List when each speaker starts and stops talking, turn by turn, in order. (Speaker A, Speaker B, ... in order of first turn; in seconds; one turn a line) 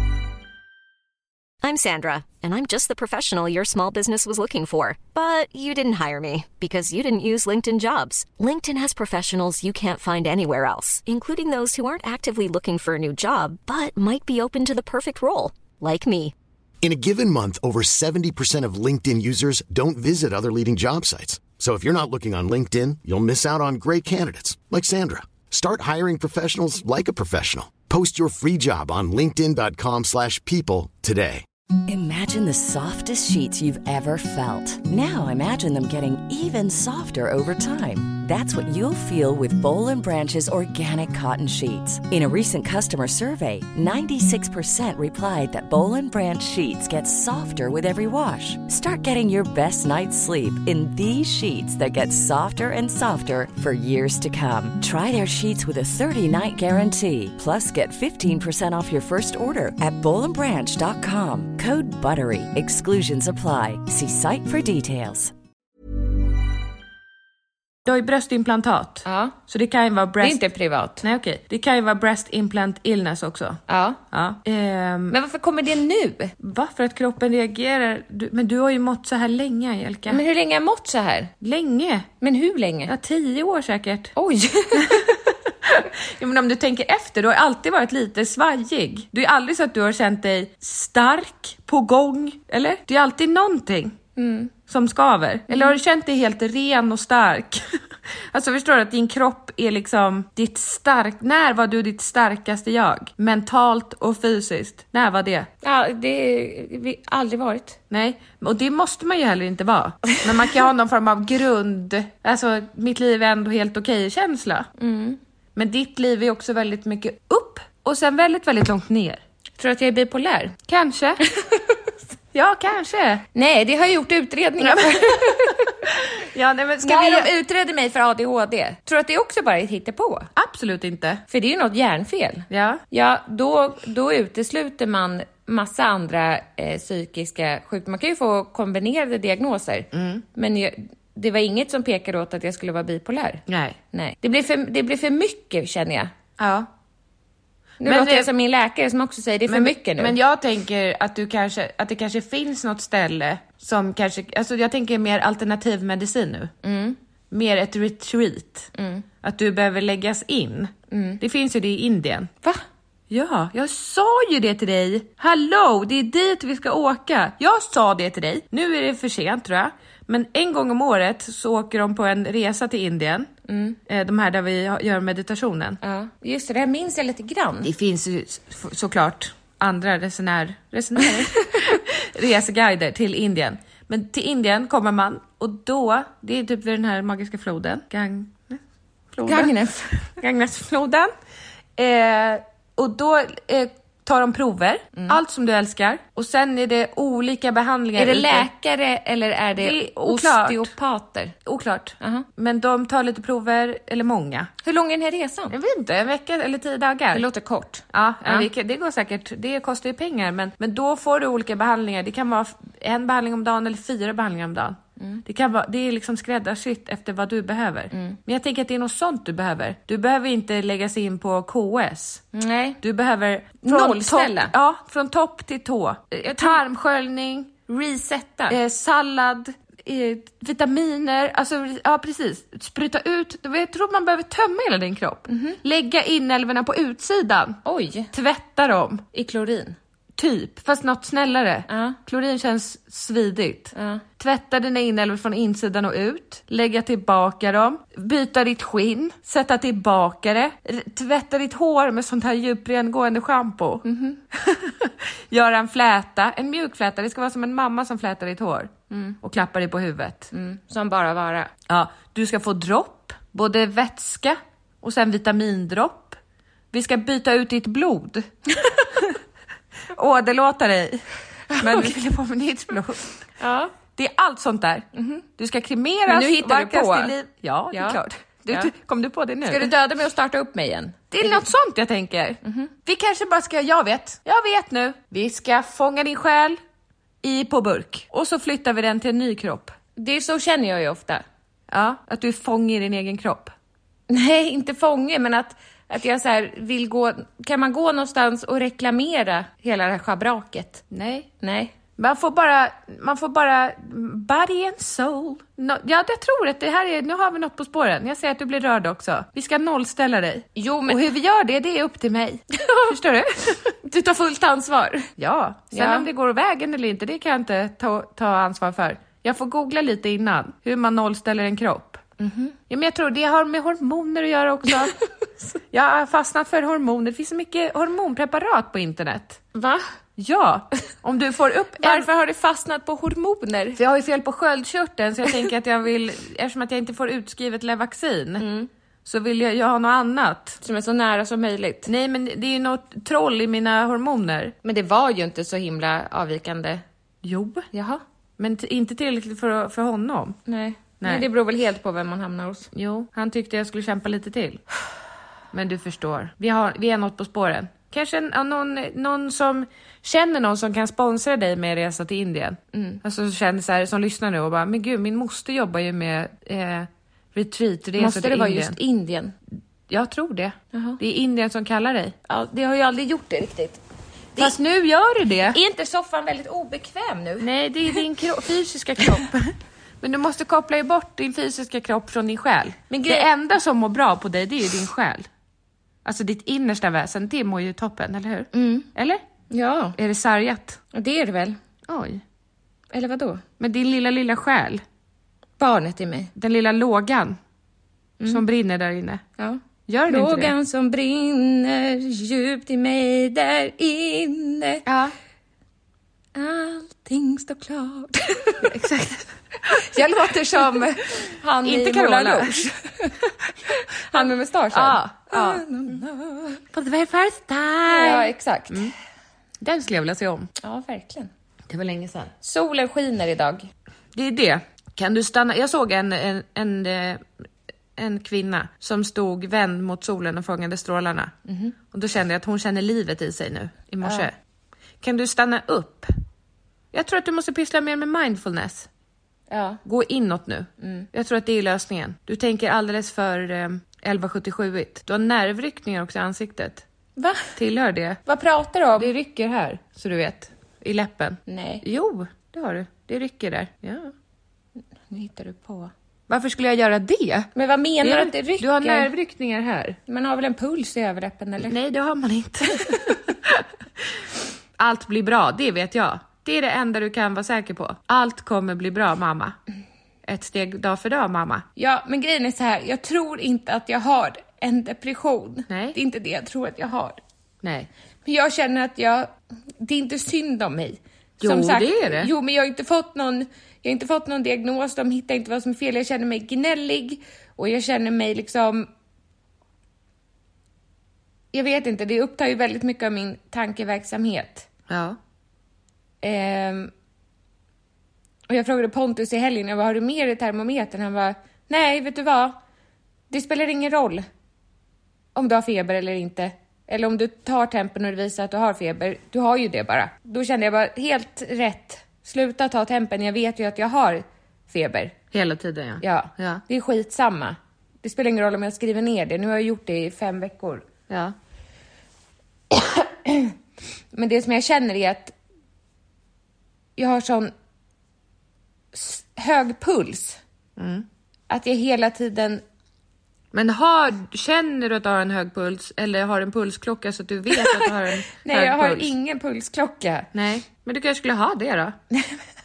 Speaker A: 1.6-16.3
Speaker B: 16.8-31.4
Speaker C: 31.9-65.3
Speaker D: 67.8-70.4
Speaker E: 69.0-69.3
Speaker E: 70.2-71.0
Speaker D: 71.0-75.1
Speaker E: 73.7-74.0
Speaker E: 75.1-76.3
Speaker D: 76.4-80.2
Speaker E: 80.1-81.3
Speaker D: 81.4-82.1
Speaker E: 82.2-82.9
Speaker D: 82.9-84.1
Speaker E: 84.2-85.0
Speaker D: 84.7-94.0
Speaker E: 94.2-94.5
Speaker D: 94.7-97.8
Speaker E: 95.5-95.8
Speaker D: 98.3-105.5
Speaker E: 105.6-107.8
Speaker D: 107.9-114.7
Speaker E: 114.8-115.2
Speaker D: 115.5-119.2
Speaker E: 119.6-120.6
Speaker D: 120.7-121.2
Speaker E: 121.3-121.8
Speaker D: 122.3-123.2
Speaker E: 123.3-125.8
Speaker D: 124.6-127.3
Speaker E: 126.8-130.3
Speaker D: 130.3-131.2
Speaker E: 131.3-146.1
Speaker D: 132.5-132.8
Speaker D: 139.9-140.2
Speaker D: 143.5-143.8
Speaker D: 146.4-146.7
Speaker E: 147.8-150.2
Speaker D: 147.8-148.3
Speaker D: 149.5-156.5
Speaker E: 156.6-157.0
Speaker D: 157.3-158.7
Speaker E: 158.8-159.0
Speaker D: 159.2-162.3
Speaker E: 160.9-161.2
Speaker D: 163.1-173.3
Speaker E: 173.5-173.8
Speaker D: 173.9-175.8
Speaker E: 175.8-177.7
Speaker D: 177.6-188.6
Speaker D: 189.1-191.1
Speaker E: 189.2-190.0
Speaker D: 191.8-198.5
Speaker E: 197.9-201.3
Speaker D: 199.6-200.7
Speaker D: 201.4-204.5
Speaker E: 204.6-205.5
Speaker D: 205.5-207.2
Speaker E: 207.1-208.5
Speaker D: 207.9-222.2
Speaker E: 217.9-218.2
Speaker E: 222.3-222.8
Speaker D: 222.8-227.7
Speaker E: 223.6-224.5
Speaker E: 226.2-226.6
Speaker E: 227.7-228.6
Speaker D: 228.5-237.6
Speaker E: 235.3-235.6
Speaker E: 237.6-238.1
Speaker D: 238.1-239.1
Speaker E: 239.1-239.8
Speaker D: 240.2-260.3
Speaker E: 241.7-242.0
Speaker E: 243.7-244.0
Speaker E: 253.8-254.2
Speaker E: 258.9-259.2
Speaker E: 260.3-261.5
Speaker D: 261.7-266.2
Speaker D: 266.7-268.3
Speaker D: 269.9-271.0
Speaker E: 271.5-271.9
Speaker D: 271.6-273.1
Speaker E: 273.4-273.7
Speaker D: 273.9-279.7
Speaker E: 274.9-275.2
Speaker E: 276.1-277.1
Speaker E: 277.7-278.7
Speaker E: 279.4-281.4
Speaker D: 281.1-286.6
Speaker E: 282.4-282.7
Speaker D: 287.2-289.7
Speaker E: 289.9-291.2
Speaker D: 291.7-293.5
Speaker E: 294.1-300.8
Speaker D: 300.9-301.3
Speaker E: 301.4-301.7
Speaker D: 302.0-313.7
Speaker E: 310.6-311.0
Speaker E: 312.6-312.9
Speaker E: 313.8-315.1
Speaker D: 315.2-322.0
Speaker E: 315.7-316.1
Speaker E: 322.2-322.5
Speaker D: 322.7-325.0
Speaker D: 325.7-329.4
Speaker E: 329.5-329.8
Speaker D: 330.2-332.1
Speaker E: 331.8-333.8
Speaker D: 333.8-338.4
Speaker E: 338.4-338.7
Speaker D: 339.1-340.6
Speaker E: 340.6-341.9
Speaker D: 341.9-344.5
Speaker E: 344.6-346.8
Speaker D: 347.2-347.7
Speaker E: 347.7-348.0
Speaker D: 348.4-350.4
Speaker E: 350.5-352.7
Speaker D: 351.0-351.2
Speaker D: 352.7-354.6
Speaker D: 355.5-368.8
Speaker E: 362.7-363.0
Speaker E: 368.0-369.3
Speaker D: 369.9-372.1
Speaker E: 370.7-371.0
Speaker E: 372.3-373.8
Speaker D: 374.4-375.6
Speaker E: 375.5-377.5
Speaker D: 377.4-385.3
Speaker E: 382.9-383.3
Speaker D: 386.0-389.2
Speaker E: 388.5-388.9
Speaker E: 389.5-389.9
Speaker D: 390.0-390.8
Speaker E: 390.9-391.6
Speaker D: 391.9-392.2
Speaker E: 392.9-393.4
Speaker D: 393.6-394.8
Speaker E: 395.6-396.3
Speaker D: 396.4-397.4
Speaker D: 398.3-399.2
Speaker E: 399.4-404.8
Speaker D: 399.9-400.5
Speaker D: 404.9-405.1
Speaker E: 406.3-408.7
Speaker D: 408.6-412.6
Speaker E: 409.7-413.1
Speaker E: 414.1-416.6
Speaker D: 414.1-415.6
Speaker D: 416.7-418.9
Speaker E: 417.9-418.9
Speaker D: 419.6-420.5
Speaker E: 420.6-421.3
Speaker D: 421.7-422.3
Speaker E: 422.4-423.7
Speaker D: 424.1-427.2
Speaker D: 428.0-431.3
Speaker E: 431.5-431.7
Speaker D: 431.9-434.3
Speaker E: 434.0-434.3
Speaker D: 435.0-436.1
Speaker D: 436.9-438.9
Speaker E: 439.5-439.8
Speaker D: 439.8-446.8
Speaker E: 440.8-441.1
Speaker E: 447.2-447.5
Speaker D: 447.6-448.2
Speaker E: 448.2-449.1
Speaker D: 449.0-454.1
Speaker E: 451.5-451.8
Speaker E: 455.1-455.9
Speaker D: 456.3-457.5
Speaker E: 457.5-459.1
Speaker D: 458.0-460.0
Speaker E: 460.1-461.8
Speaker D: 461.6-463.6
Speaker D: 464.8-469.6
Speaker D: 470.2-471.6
Speaker E: 471.8-477.2
Speaker D: 475.7-475.9
Speaker D: 477.6-477.9
Speaker E: 478.2-488.9
Speaker D: 481.4-482.3
Speaker E: 491.5-494.7
Speaker D: 494.9-495.2
Speaker E: 496.2-496.9
Speaker E: 498.5-502.6
Speaker E: 503.3-504.3
Speaker E: 505.3-515.1
Speaker D: 515.3-516.6
Speaker E: 516.0-520.9
Speaker D: 521.1-521.3
Speaker E: 522.7-523.5
Speaker E: 524.1-525.3
Speaker E: 527.0-527.5
Speaker E: 528.9-530.4
Speaker D: 530.8-531.0
Speaker E: 531.5-532.6
Speaker D: 533.5-539.1
Speaker E: 537.5-540.3
Speaker D: 540.3-542.0
Speaker E: 542.1-542.4